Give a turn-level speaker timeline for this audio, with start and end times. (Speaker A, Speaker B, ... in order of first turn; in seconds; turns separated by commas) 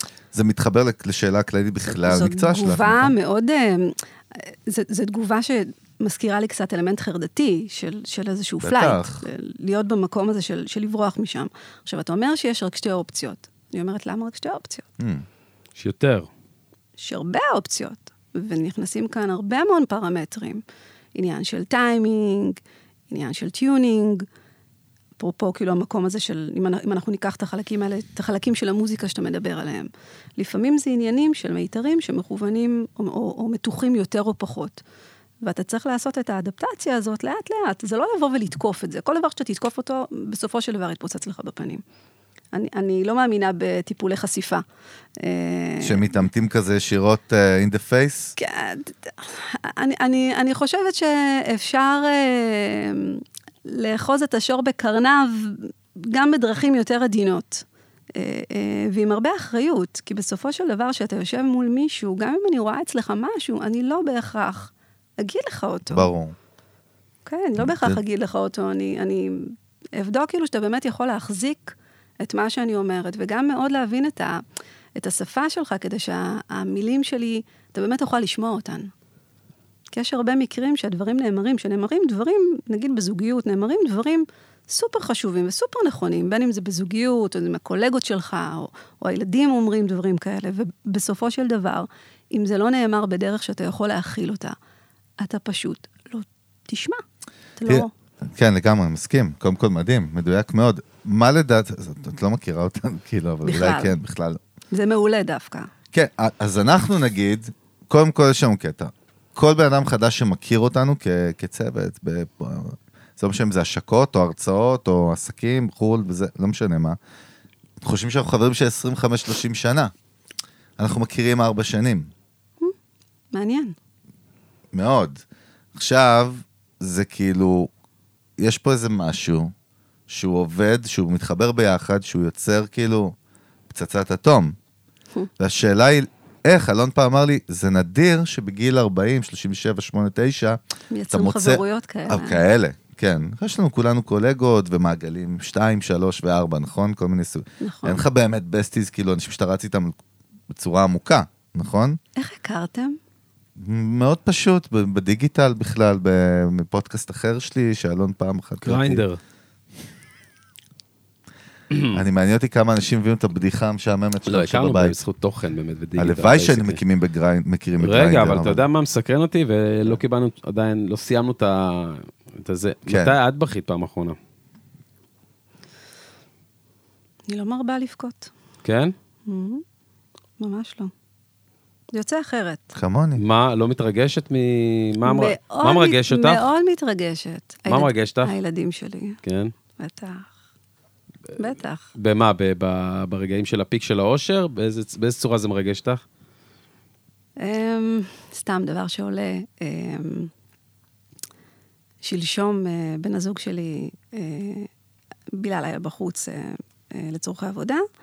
Speaker A: 0.3-3.1, Speaker B: 1.9-14.9, Speaker A: 8.6-9.2, Speaker A: 15.0-15.3, Speaker C: 15.8-16.3, Speaker B: 17.0-20.6, Speaker B: 21.1-22.6, Speaker B: 23.1-24.3, Speaker B: 25.2-34.8, Speaker B: 35.4-41.8, Speaker B: 42.5-44.6, Speaker B: 45.2-46.2, Speaker A: 45.8-48.4, Speaker B: 48.4-66.1, Speaker A: 65.9-66.4, Speaker B: 67.3-74.4, Speaker A: 67.6-68.0, Speaker B: 75.0-78.9, Speaker B: 79.9-94.5, Speaker B: 95.2-97.0, Speaker B: 97.6-97.9, Speaker A: 97.7-104.4, Speaker B: 103.5-103.9, Speaker B: 104.7-105.7, Speaker A: 105.9-117.0, Speaker A: 117.8-119.9, Speaker A: 120.8-122.1, Speaker B: 123.3-123.8, Speaker A: 124.7-125.2, Speaker A: 125.8-127.7, Speaker A: 128.4-129.5, Speaker A: 130.1-133.2, Speaker A: 133.7-134.6, Speaker A: 135.4-140.6, Speaker B: 140.9-142.4, Speaker A: 141.1-149.9, Speaker B: 147.6-148.0, Speaker A: 150.5-152.0, Speaker B: 152.2-153.0, Speaker A: 153.6-159.0, Speaker C: 158.6-159.2, Speaker A: 161.9-165.0, Speaker C: 164.3-166.8, Speaker A: 166.0-168.7, Speaker C: 167.8-174.2, Speaker A: 172.9-173.2, Speaker B: 177.3-178.3, Speaker C: 178.6-178.9, Speaker B: 179.3-179.6, Speaker B: 180.4-180.9, Speaker B: 181.9-182.7, Speaker A: 182.8-183.2, Speaker C: 183.2-186.5, Speaker B: 185.1-189.2, Speaker C: 187.7-188.3, Speaker C: 189.2-189.5, Speaker B: 189.8-190.3, Speaker B: 191.4-191.9, Speaker C: 191.9-196.0, Speaker B: 197.4-200.3, Speaker B: 202.0-204.7, Speaker B: 205.3-207.8